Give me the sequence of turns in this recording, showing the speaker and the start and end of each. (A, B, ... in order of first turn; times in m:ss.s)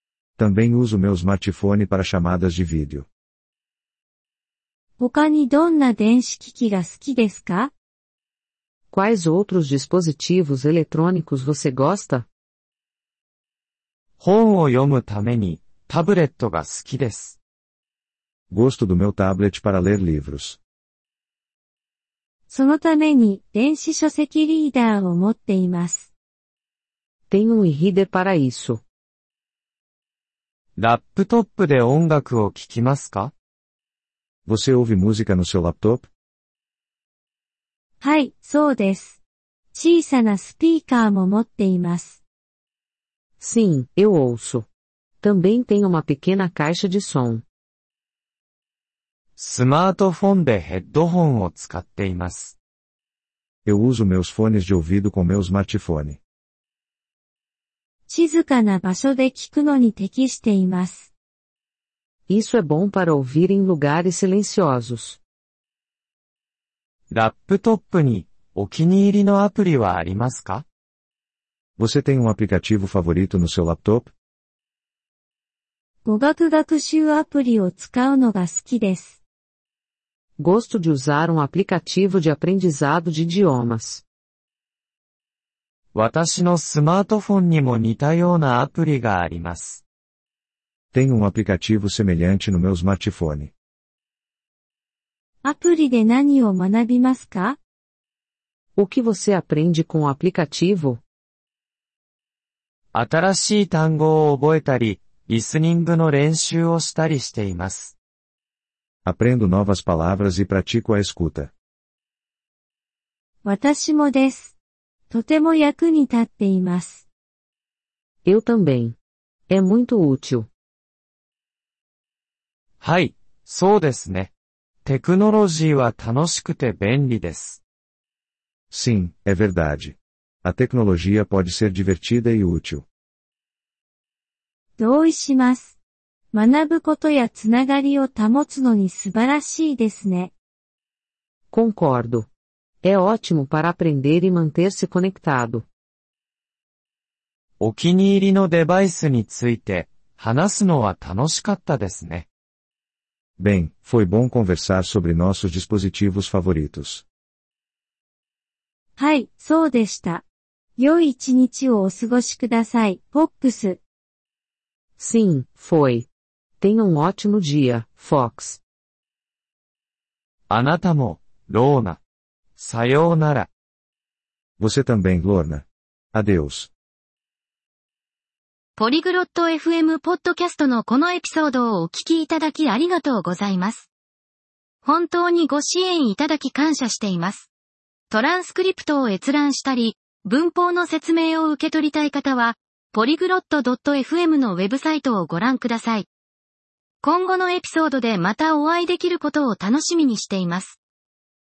0:00.4-0:03.1 A
0:05.0-0:07.7 B
0:08.9-0:12.3 C
0:14.2-0:17.4 D
0:18.5-0:20.6 A
0:22.5-0:26.1 B
0:27.3-0:28.8 C
0:30.8-0:33.3 D
0:34.5-0:36.1 A
0:38.0-0:39.2 B
0:39.7-0:42.2 B
0:43.4-0:44.7 C
0:45.2-0:47.4 C
0:49.4-0:52.6 D
0:53.6-0:56.2 A
0:58.1-1:01.1 B
1:02.3-1:05.2 C
1:07.1-1:10.6 D
1:11.8-1:14.1 A
1:16.0-1:19.2 B
1:20.4-1:24.0 C
1:25.9-1:29.8 D
1:30.9-1:33.5 A
1:35.4-1:37.6 B
1:38.8-1:41.0 C
1:42.9-1:48.0 D
1:49.0-1:51.5 A
1:53.4-1:54.5 B
1:55.1-1:57.0 B
1:58.3-1:59.0 C
1:59.5-2:00.5 C
2:02.8-2:04.3 D
2:04.8-2:07.6 D
2:08.7-2:12.8 A
2:14.8-2:15.8 B
2:16.3-2:20.3 B
2:21.5-2:22.3 C
2:22.8-2:25.6 C
2:27.6-2:32.3 D
2:33.4-2:37.0 A
2:39.0-2:40.2 B
2:40.8-2:43.8 B
2:45.0-2:46.1 C
2:46.6-2:48.6 C
2:50.5-2:52.0 D
2:52.6-2:53.5 D
2:54.6-2:56.7 A
2:58.8-3:03.9 E
3:04.8-3:07.5 E
3:08.1-3:16.1 E
3:17.0-3:20.8 E